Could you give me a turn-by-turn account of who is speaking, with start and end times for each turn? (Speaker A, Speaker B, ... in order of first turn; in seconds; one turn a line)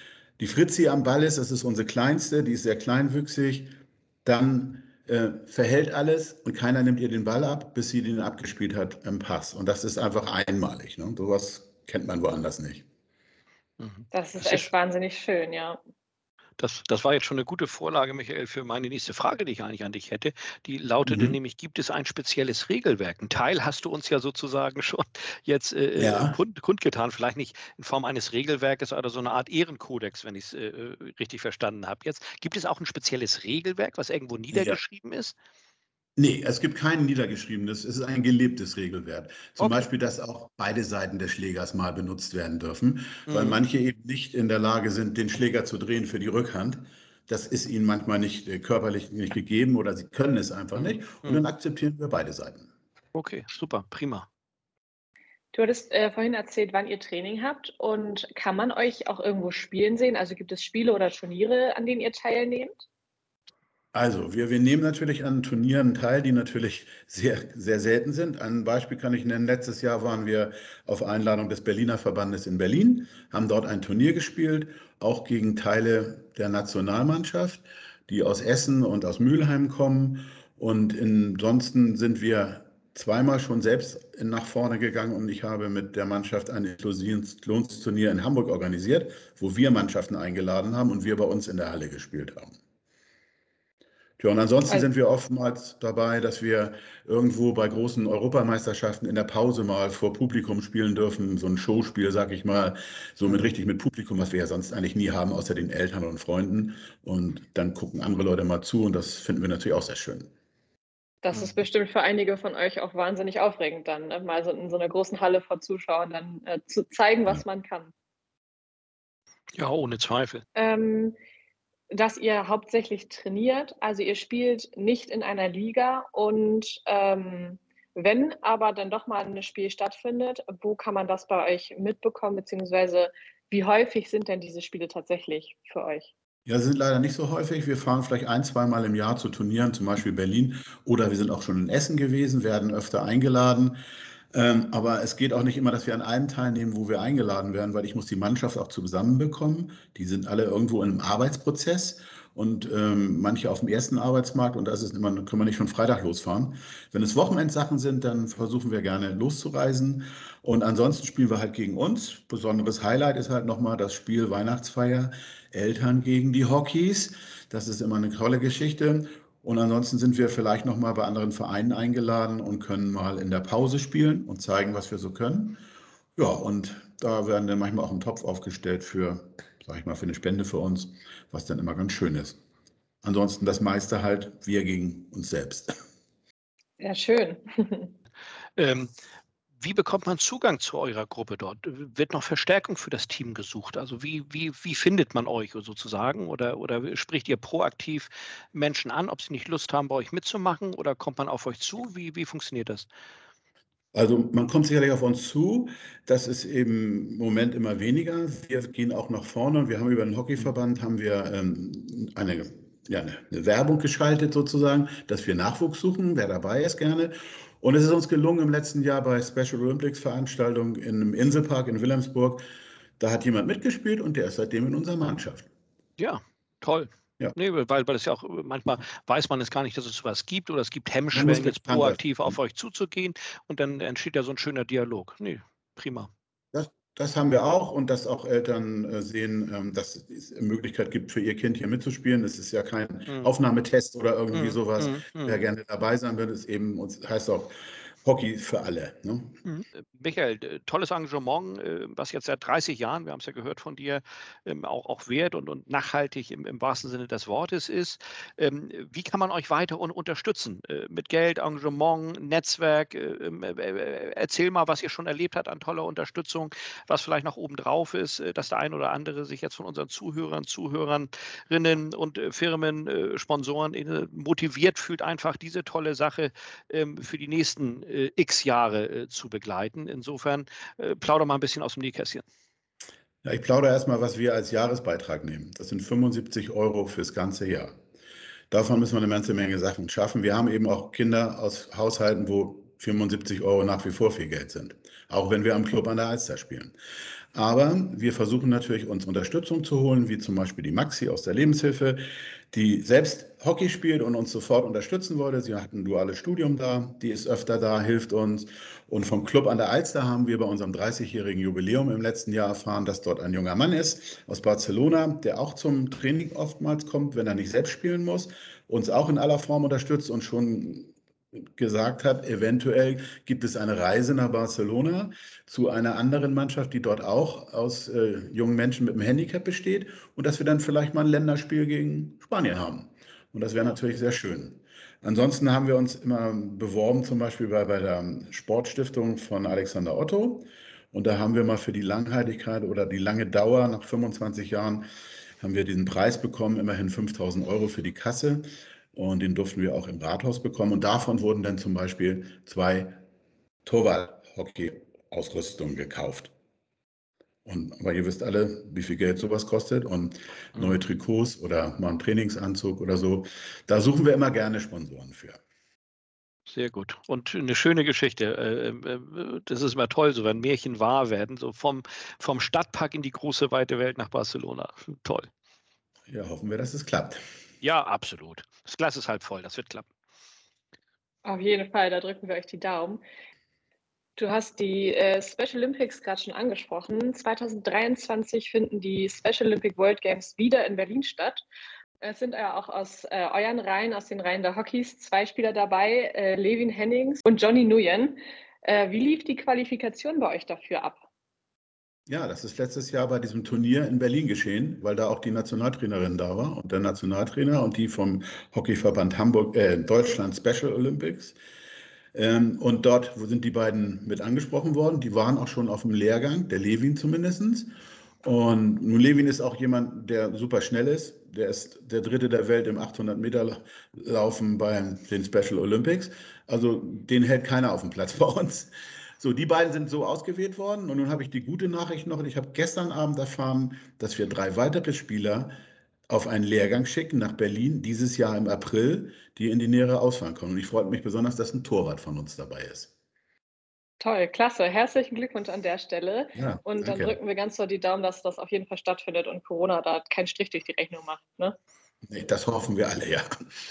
Speaker A: 0.4-3.7
Speaker A: 4.2-12.8
Speaker B: 13.8-14.7
Speaker C: 14.1-15.8
Speaker B: 16.6-35.3
Speaker A: 21.0-21.4
Speaker A: 26.0-26.4
Speaker A: 34.5-34.8
Speaker A: 36.2-52.7
Speaker B: 39.6-39.9
Speaker B: 43.3-43.6
Speaker B: 50.7-51.4
Speaker B: 53.1-54.3
Speaker C: 55.5-62.8
Speaker A: 63.9-92.6
Speaker A: 94.2-110.3
Speaker C: 111.2-117.9
Speaker B: 119.5-120.4
Speaker C: 120.5-121.2
Speaker C: 121.9-136.1
Speaker A: 136.4-143.8
Speaker A: 144.3-175.6
Speaker A: 176.2-182.4
Speaker A: 183.0-185.7
Speaker C: 186.8-187.9
Speaker B: 188.6-188.9
Speaker B: 189.6-202.9
Speaker A: 203.9-222.4
Speaker A: 223.0-225.5
Speaker B: 226.0-236.1
Speaker A: 231.1-232.4
Speaker A: 236.5-249.3
Speaker B: 244.3-245.4
Speaker B: 249.4-282.2
Speaker A: 283.2-287.8
Speaker A: 288.5-296.7
Speaker A: 297.3-320.9
Speaker A: 321.6-344.8
Speaker A: 345.4-353.0
Speaker A: 353.6-356.3
Speaker A: 357.4-365.4
Speaker B: 366.5-375.3
Speaker A: 376.1-377.2
Speaker B: 377.6-379.9
Speaker C: 381.2-383.0
Speaker C: 384.2-391.4
Speaker C: 392.0-401.1
Speaker A: 402.1-411.4
Speaker A: 412.1-417.7
Speaker A: 418.2-435.5
Speaker A: 436.1-442.9
Speaker C: 444.0-451.6
Speaker A: 446.4-447.2
Speaker A: 452.1-453.2